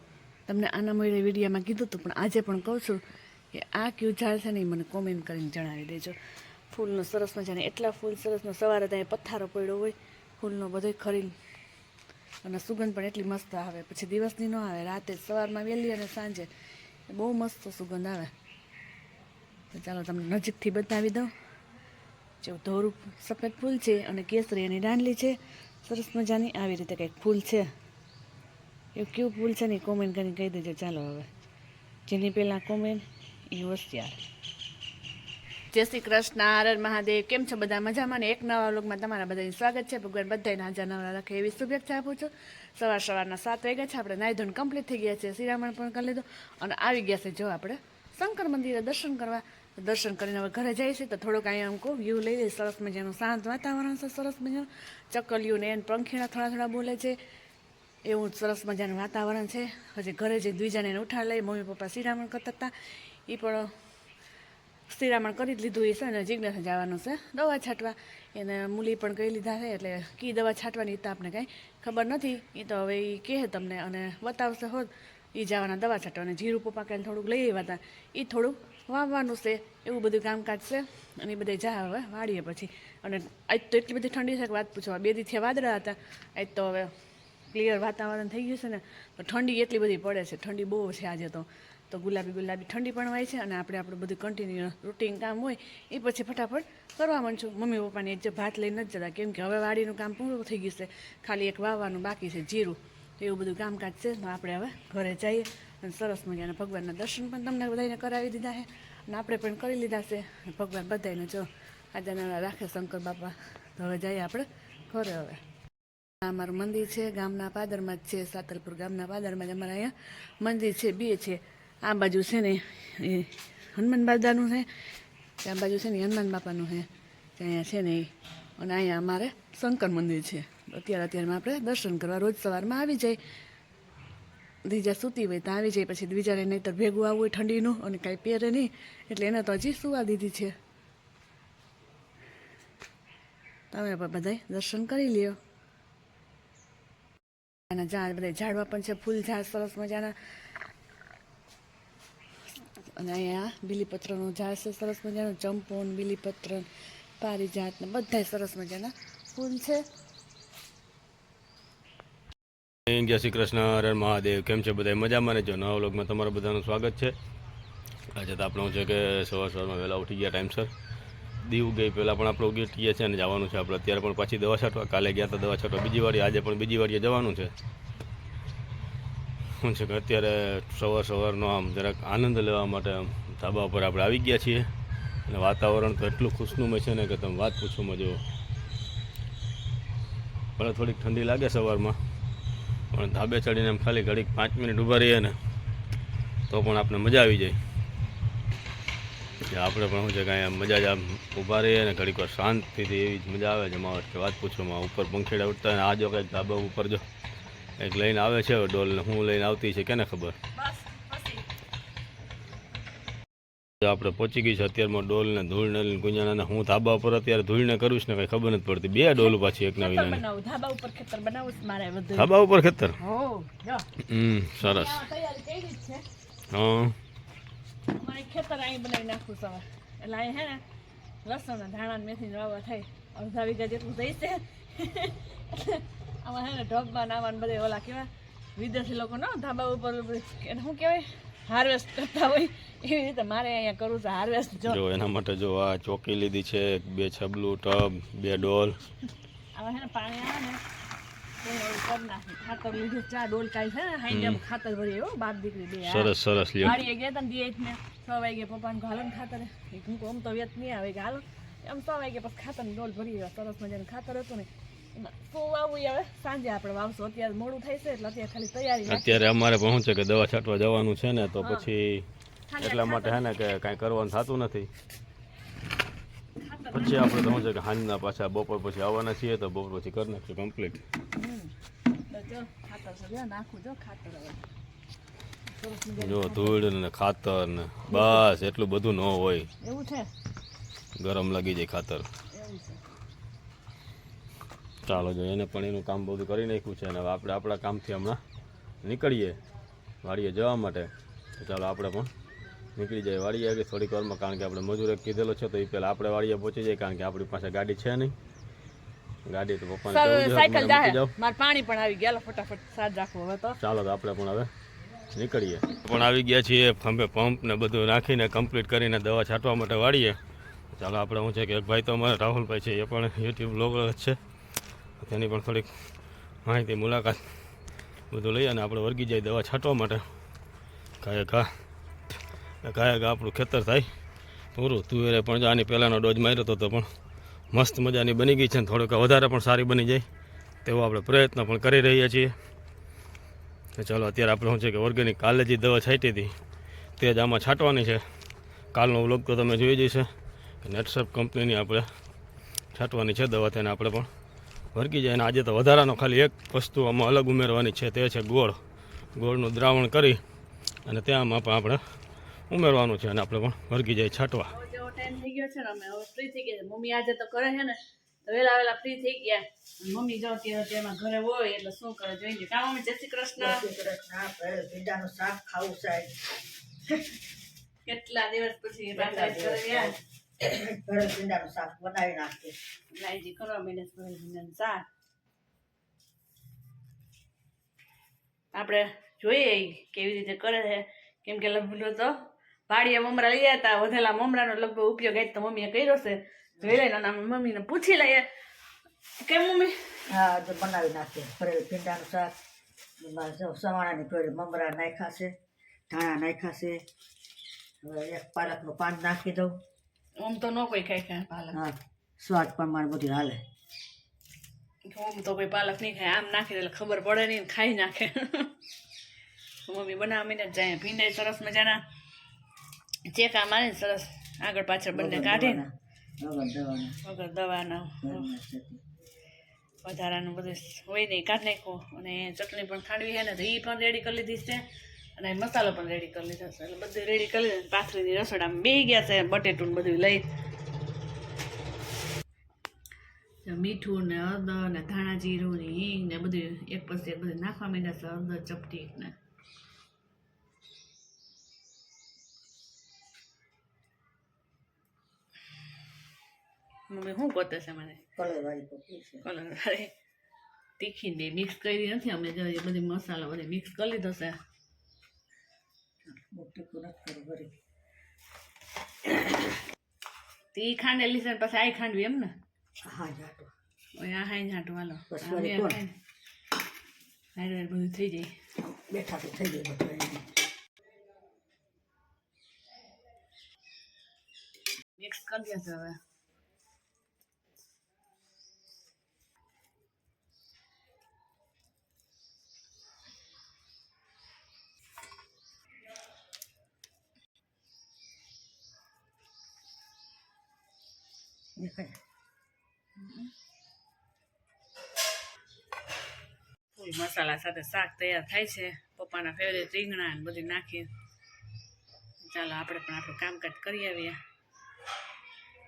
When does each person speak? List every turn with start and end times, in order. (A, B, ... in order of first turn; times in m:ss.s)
0:00.5-0:03.0 A
0:03.5-0:06.2 A
0:06.7-0:11.3 A
0:12.4-0:16.5 A
0:17.1-0:18.3 A
0:19.7-0:21.3 A
0:22.4-0:27.7 A
0:28.9-0:31.3 A
0:32.1-0:34.2 A
0:35.7-0:57.2 A
0:58.0-1:02.7 A
1:03.3-1:03.7 A
1:04.9-1:26.9 A
1:27.5-1:55.4 A
1:56.2-2:04.7 A
2:05.4-2:13.2 A
2:14.6-2:20.5 A
2:23.7-2:25.4 A
2:27.7-2:30.2 A
2:33.0-2:36.6 A
2:37.2-2:39.8 A
2:42.9-2:47.1 B
2:48.1-2:50.7 B
2:51.4-2:57.5 B
2:59.6-3:04.6 B
3:05.3-3:08.2 B
3:10.6-3:12.0 B
3:12.9-3:15.3 B
3:16.5-3:17.6 B
3:19.5-3:27.0 B
3:27.8-3:30.3 B
3:30.6-3:31.4 A
3:33.8-3:40.2 B
3:39.2-3:42.3 A
3:42.2-3:43.0 B
3:43.0-3:43.8 A
3:44.1-3:45.0 B
3:44.6-3:46.0 A
3:46.5-3:46.9 B
3:48.0-3:50.6 A
3:51.2-4:04.8 A
4:04.7-4:08.7 B
4:09.6-4:10.6 A
4:11.4-4:16.1 A
4:14.1-4:14.4 B
4:15.8-4:16.8 B
4:16.6-4:29.2 A
4:28.9-4:32.0 B
4:31.4-4:31.7 A
4:32.5-4:33.2 A
4:32.6-4:34.7 B
4:36.4-4:37.3 A
4:36.7-4:40.8 B
4:41.2-4:41.5 A
4:42.1-4:44.4 A
4:45.5-4:46.6 A
4:46.0-4:49.5 B
4:47.9-4:48.2 A
4:49.6-4:50.1 A
4:51.0-4:52.1 B
4:52.3-4:52.8 A
4:54.8-4:58.2 B
4:58.8-4:59.4 B
5:00.0-5:02.1 B
5:02.8-5:08.1 B
5:09.2-5:11.1 B
5:09.9-5:13.6 A
5:13.6-5:14.5 B
5:15.1-5:20.2 B
5:20.7-5:24.2 B
5:25.0-5:25.7 B
5:26.4-5:27.2 B
5:28.1-5:30.0 B
5:31.0-5:31.5 B
5:32.6-5:33.9 B
5:34.6-5:36.9 B
5:37.5-5:40.0 B
5:40.6-5:42.3 B
5:43.8-5:46.3 B
5:47.0-5:48.0 B
5:48.7-5:50.1 B
5:50.6-5:51.9 B
5:52.7-5:54.1 B
5:54.7-5:58.6 B
5:59.2-6:00.2 B
6:00.8-6:01.8 B
6:02.5-6:04.5 B
6:04.5-6:13.6 A
6:13.4-6:16.1 C
6:17.8-6:19.9 A
6:18.9-6:22.6 C
6:23.0-6:24.8 A
6:28.5-6:32.1 A
6:32.7-6:38.2 A
6:39.2-6:39.8 A
6:40.1-6:42.3 C
6:43.0-6:45.3 C
6:45.9-6:46.8 C
6:47.8-6:49.5 C
6:50.2-6:51.6 A
6:51.5-6:53.4 C
6:54.9-6:58.5 A
6:59.7-7:01.8 A
7:03.1-7:05.6 A
7:04.9-7:07.0 C
7:07.0-7:08.3 A
7:08.0-7:08.8 C
7:09.8-7:14.6 A
7:15.2-7:20.3 A
7:23.4-7:29.1 A
7:36.9-7:38.0 A
7:38.2-7:39.2 C
7:39.2-7:39.9 A
7:40.8-7:44.4 A
7:46.1-7:47.5 C
7:50.5-7:52.3 A
7:52.8-7:53.5 C
7:54.0-7:55.9 A
7:55.1-7:55.8 C
7:57.4-7:58.3 A
7:58.9-8:00.2 C
8:05.0-8:06.0 A
8:21.6-8:22.0 C
8:23.0-8:23.3 A
8:26.7-8:30.9 A
8:32.2-8:34.2 A